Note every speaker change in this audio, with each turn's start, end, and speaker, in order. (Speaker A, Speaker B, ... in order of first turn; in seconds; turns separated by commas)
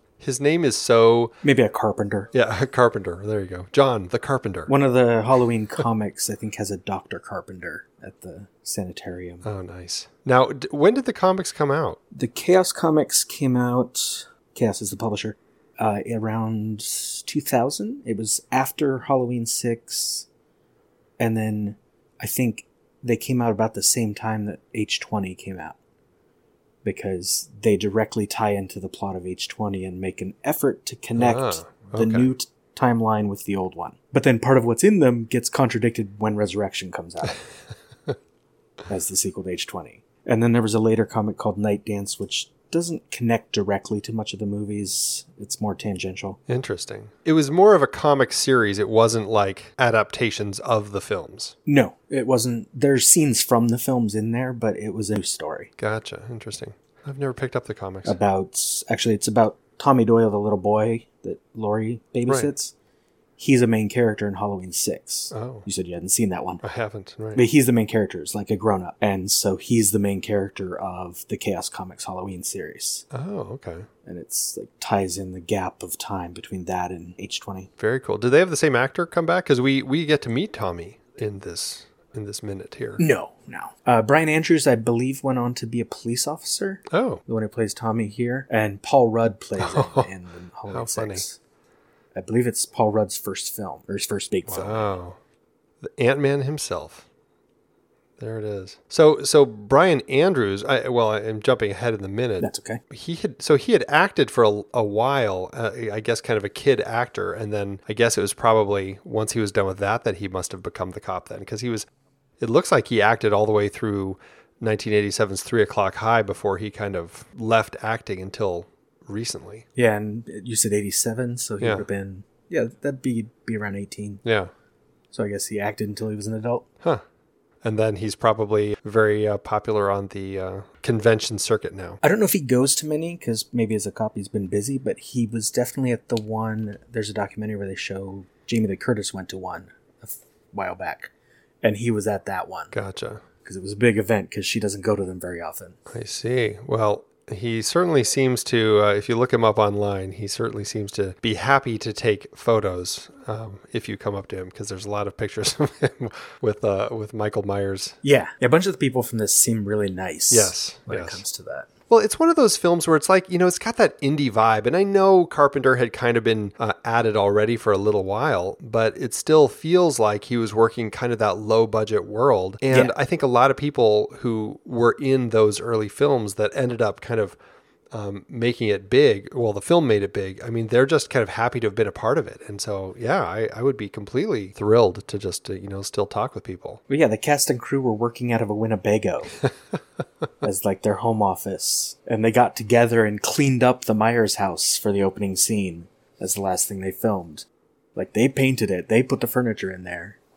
Speaker A: 0.2-1.4, Speaker B: 1.4-2.3, Speaker A: 2.3-4.7, Speaker B: 4.7-9.4, Speaker A: 9.4-12.0, Speaker B: 12.1-20.3, Speaker B: 21.2-25.8, Speaker B: 26.8-37.4, Speaker A: 31.2-32.3, Speaker B: 38.9-46.4, Speaker A: 46.5-51.6, Speaker B: 51.7-55.7, Speaker A: 55.8-58.2, Speaker B: 58.0-62.7, Speaker A: 62.3-62.5, Speaker B: 63.4-66.6, Speaker A: 65.3-65.7, Speaker A: 66.6-67.4, Speaker B: 67.3-73.0, Speaker A: 73.1-73.9, Speaker B: 74.0-77.7, Speaker A: 77.8-83.0, Speaker B: 83.0-91.4, Speaker A: 86.9-87.2, Speaker A: 89.6-90.1, Speaker A: 90.7-91.2, Speaker B: 92.1-94.9, Speaker A: 94.5-95.2, Speaker A: 95.8-97.0, Speaker A: 98.2-111.8, Speaker B: 102.4-102.8, Speaker A: 112.4-119.7, Speaker B: 119.8-124.2, Speaker A: 121.6-121.8, Speaker A: 124.2-124.5, Speaker B: 125.1-126.7, Speaker A: 127.6-132.0, Speaker B: 132.0-141.1, Speaker B: 141.6-142.7, Speaker A: 142.7-143.2, Speaker B: 143.4-145.8, Speaker A: 145.9-158.0, Speaker B: 158.0-161.7, Speaker A: 160.3-161.2, Speaker A: 161.9-177.3, Speaker A: 177.9-186.8, Speaker B: 186.9-189.4, Speaker B: 190.4-200.2